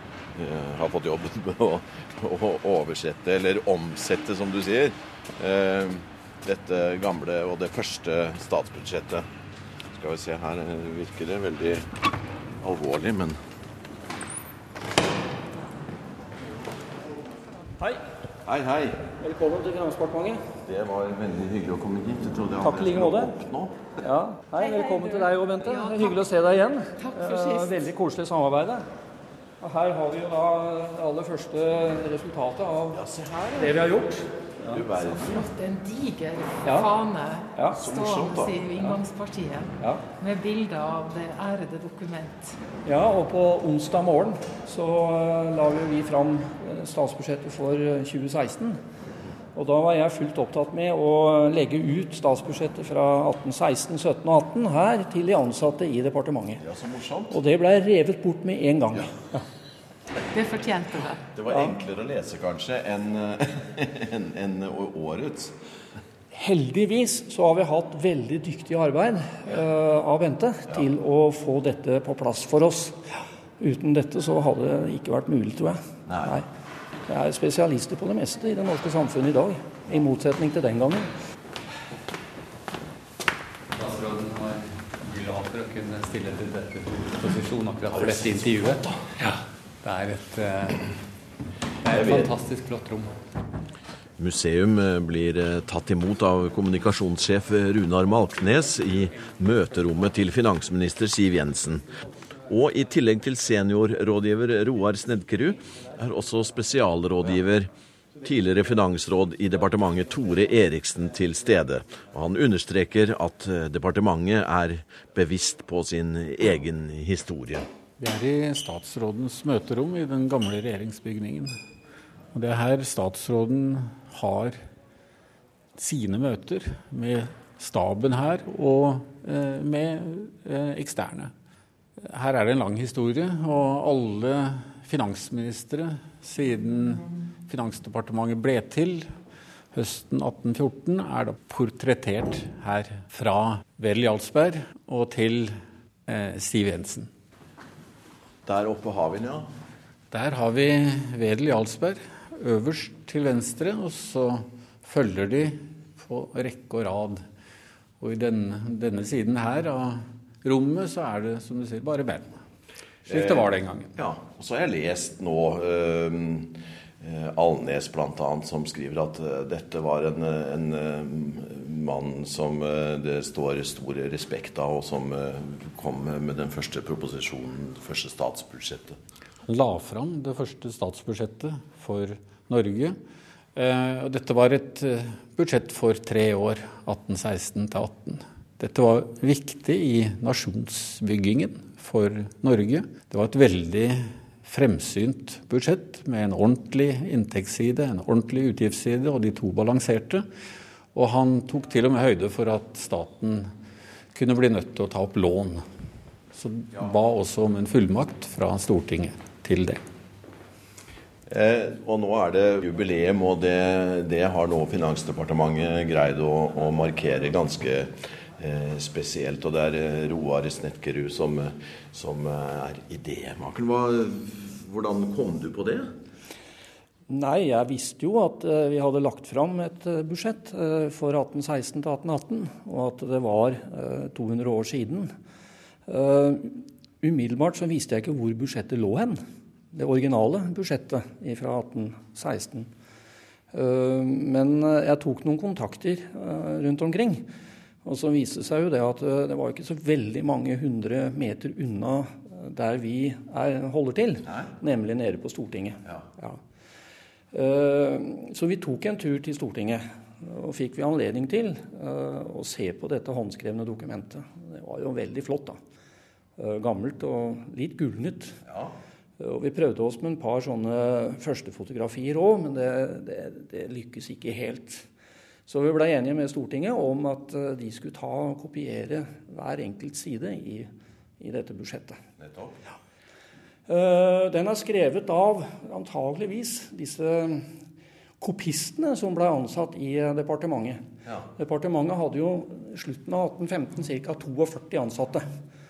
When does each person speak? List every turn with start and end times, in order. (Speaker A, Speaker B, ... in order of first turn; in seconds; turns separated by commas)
Speaker A: 0.3-9.3, Speaker A: 9.9-11.9, Speaker A: 12.6-13.4, Speaker A: 18.4-19.0, Speaker B: 19.2-20.4, Speaker A: 20.6-23.9, Speaker B: 22.6-23.3, Speaker B: 24.0-28.8, Speaker C: 27.1-27.7, Speaker B: 29.6-33.0, Speaker A: 32.9-33.8, Speaker B: 33.6-34.8, Speaker A: 34.7-35.4, Speaker C: 35.2-42.6, Speaker B: 36.6-36.9, Speaker B: 37.5-37.8, Speaker A: 37.7-38.6, Speaker B: 42.8-48.8, Speaker B: 49.5-56.6, Speaker A: 56.6-57.4, Speaker B: 57.3-59.4, Speaker C: 60.3-61.2, Speaker A: 61.3-65.5, Speaker B: 66.3-73.0, Speaker B: 73.6-76.5, Speaker A: 76.1-76.4, Speaker B: 77.1-81.1, Speaker D: 83.7-90.9, Speaker A: 87.9-88.9, Speaker D: 91.8-93.1, Speaker A: 91.9-92.4, Speaker A: 94.2-101.8, Speaker A: 102.5-107.7, Speaker A: 108.2-117.7, Speaker E: 118.0-121.5, Speaker E: 122.3-124.6, Speaker E: 125.8-131.3, Speaker E: 132.0-139.1, Speaker E: 139.7-145.5, Speaker E: 146.1-147.1, Speaker A: 148.4-149.5, Speaker E: 150.1-157.2, Speaker E: 158.0-162.4, Speaker E: 163.1-163.9, Speaker A: 163.1-179.0, Speaker E: 179.4-183.0, Speaker E: 183.5-200.3, Speaker E: 200.9-203.5, Speaker E: 204.1-205.6, Speaker E: 206.3-209.8, Speaker A: 211.3-225.9, Speaker B: 227.1-235.1, Speaker B: 235.9-239.2, Speaker B: 239.7-242.7, Speaker B: 243.5-247.3, Speaker B: 247.8-256.4, Speaker B: 257.3-265.6, Speaker B: 266.4-268.4, Speaker B: 269.2-274.9, Speaker B: 275.5-282.0, Speaker A: 282.2-282.5, Speaker B: 283.7-287.5, Speaker B: 288.2-290.8, Speaker B: 291.4-295.3